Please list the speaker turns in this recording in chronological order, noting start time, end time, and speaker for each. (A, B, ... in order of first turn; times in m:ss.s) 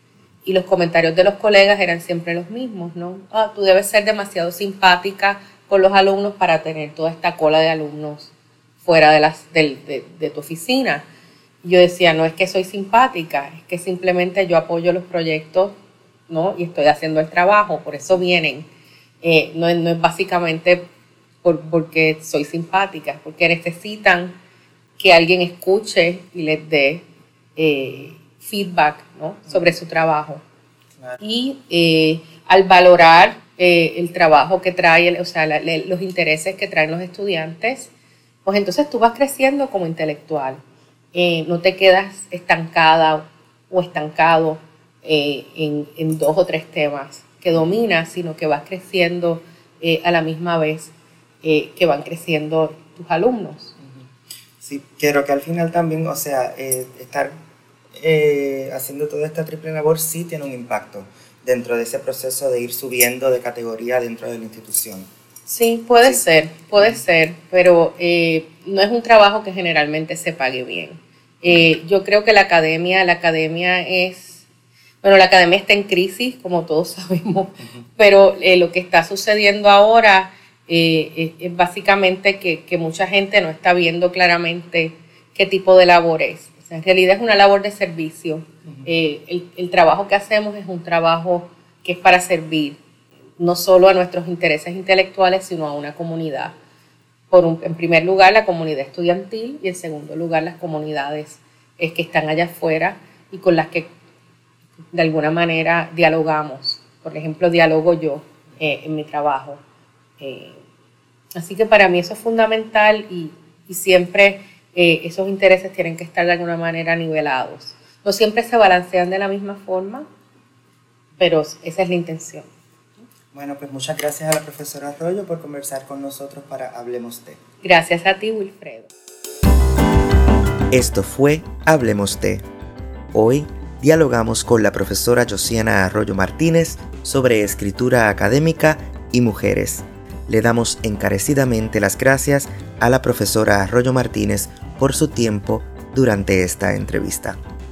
0:00.4-0:08.3 A
0:08.8-0:11.0 A
0:11.6-0:15.7 A
0:16.3-0:18.7 A
0:19.2-0:20.8 A
0:21.4-0:24.3 A
0:25.0-0:27.0 A
0:27.6-0:30.4 A
0:31.2-0:37.9 A
0:38.4-0:40.6 A
0:41.1-0:53.7 A
0:54.6-0:57.3 B
0:57.9-1:05.1 B
1:05.4-1:14.4 A
1:15.0-1:32.8 A
1:33.4-1:36.5 A
1:37.3-1:43.9 A
1:44.9-1:49.6 A
1:50.2-1:50.6 A
1:51.3-2:00.0 A
2:01.2-2:02.5 A
2:03.3-2:07.4 B
2:07.6-2:08.9 A
2:10.7-2:12.4 C
2:13.1-2:27.4 C